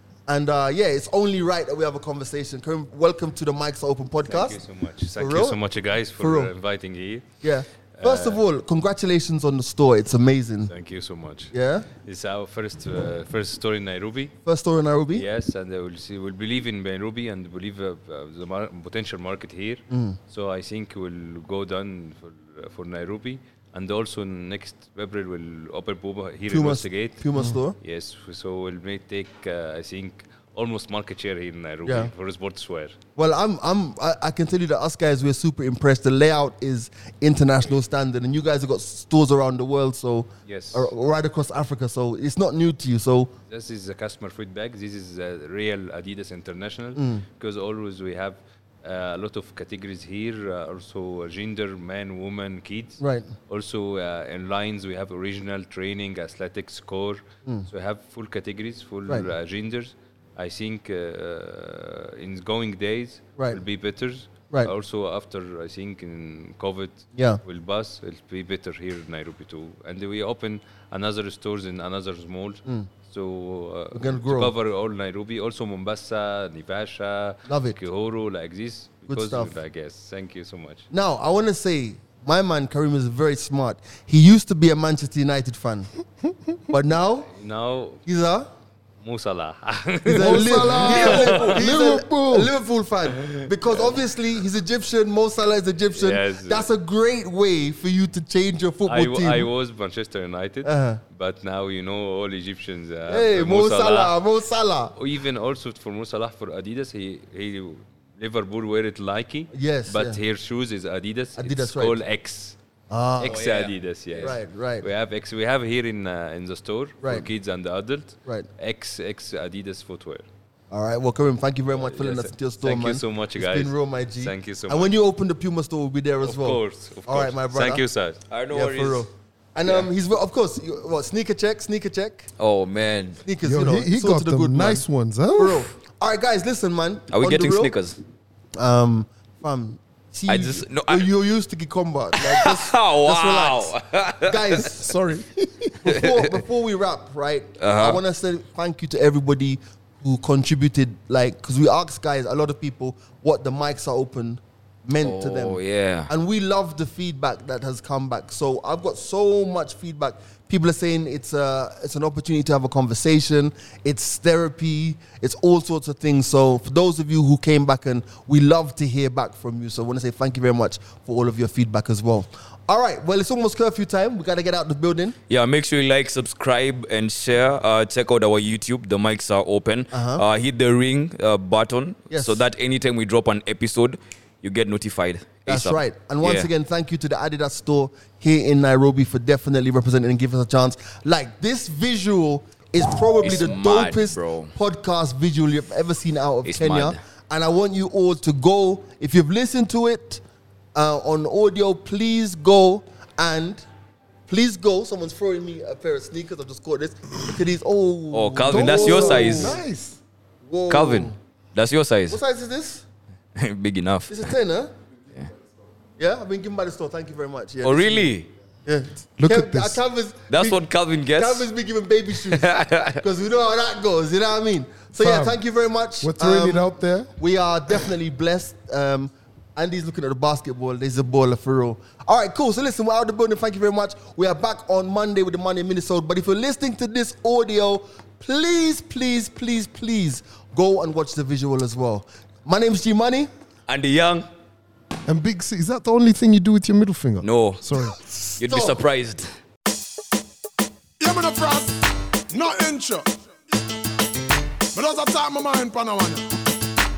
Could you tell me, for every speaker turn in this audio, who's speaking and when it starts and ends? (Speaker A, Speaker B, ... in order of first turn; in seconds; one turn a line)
Speaker A: 0.3-4.6
Speaker B: 4.2-7.2
Speaker A: 5.2-5.6
Speaker A: 6.2-6.5
Speaker A: 7.4-10.7
Speaker B: 8.0-8.4
Speaker B: 10.7-14.3
Speaker A: 11.5-11.8
Speaker A: 14.4-15.2
Speaker B: 15.1-32.9
Speaker A: 19.9-20.2
Speaker A: 26.5-27.8
Speaker A: 31.8-32.1
Speaker A: 33.1-43.3
Speaker B: 40.5-40.9
Speaker B: 43.5-80.9
Speaker A: 47.0-47.2
Speaker A: 53.0-53.3
Speaker A: 63.4-63.6
Speaker A: 67.1-67.4
Speaker A: 73.9-74.5
Speaker A: 77.5-77.8
Speaker A: 79.1-79.5
Speaker A: 80.9-85.9
Speaker A: 86.7-87.3
Speaker B: 87.2-88.0
Speaker A: 88.0-88.5
Speaker B: 89.0-91.6
Speaker A: 90.0-99.5
Speaker C: 90.2-92.5
Speaker B: 93.2-94.0
Speaker B: 95.9-96.7
Speaker B: 98.8-104.2
Speaker A: 100.6-101.0
Speaker A: 103.1-104.9
Speaker B: 105.0-112.5
Speaker A: 109.5-110.2
Speaker A: 111.4-112.0
Speaker A: 112.9-113.4
Speaker B: 113.2-120.2
Speaker D: 113.3-114.3
Speaker A: 114.2-114.9
Speaker A: 117.0-117.3
Speaker A: 120.7-127.8
Speaker B: 121.7-125.0
Speaker B: 126.2-128.2
Speaker D: 128.3-129.1
Speaker A: 128.5-132.3
Speaker D: 132.4-133.2
Speaker A: 133.2-137.7
Speaker C: 133.4-135.7
Speaker D: 137.1-138.0
Speaker A: 138.6-144.9
Speaker D: 140.3-141.1
Speaker D: 142.2-144.6
Speaker C: 144.8-145.7
Speaker A: 145.8-175.2
Speaker D: 145.9-146.3
Speaker D: 147.6-148.0
Speaker D: 155.0-156.1
Speaker D: 175.3-186.5
Speaker A: 179.9-180.2
Speaker A: 182.1-182.4
Speaker A: 185.5-200.2
Speaker D: 193.2-194.5
Speaker D: 196.4-197.0
Speaker A: 200.7-203.6
Speaker A: 204.3-209.6
Speaker D: 208.1-209.6
Speaker C: 208.5-210.0
Speaker A: 210.4-211.1
Speaker D: 210.7-212.2
Speaker A: 212.1-212.8
Speaker D: 213.3-214.2
Speaker A: 214.1-214.7
Speaker A: 216.0-218.1
Speaker D: 217.6-218.3
Speaker A: 218.7-220.6
Speaker C: 219.2-219.8
Speaker D: 220.3-221.5
Speaker A: 221.1-243.3
Speaker D: 222.3-223.0
Speaker C: 225.0-225.4
Speaker C: 226.0-227.1
Speaker D: 243.7-244.3
Speaker C: 245.1-248.0
Speaker D: 247.2-247.6
Speaker A: 247.9-248.8
Speaker D: 248.4-249.3
Speaker E: 251.0-253.2
Speaker E: 254.7-256.4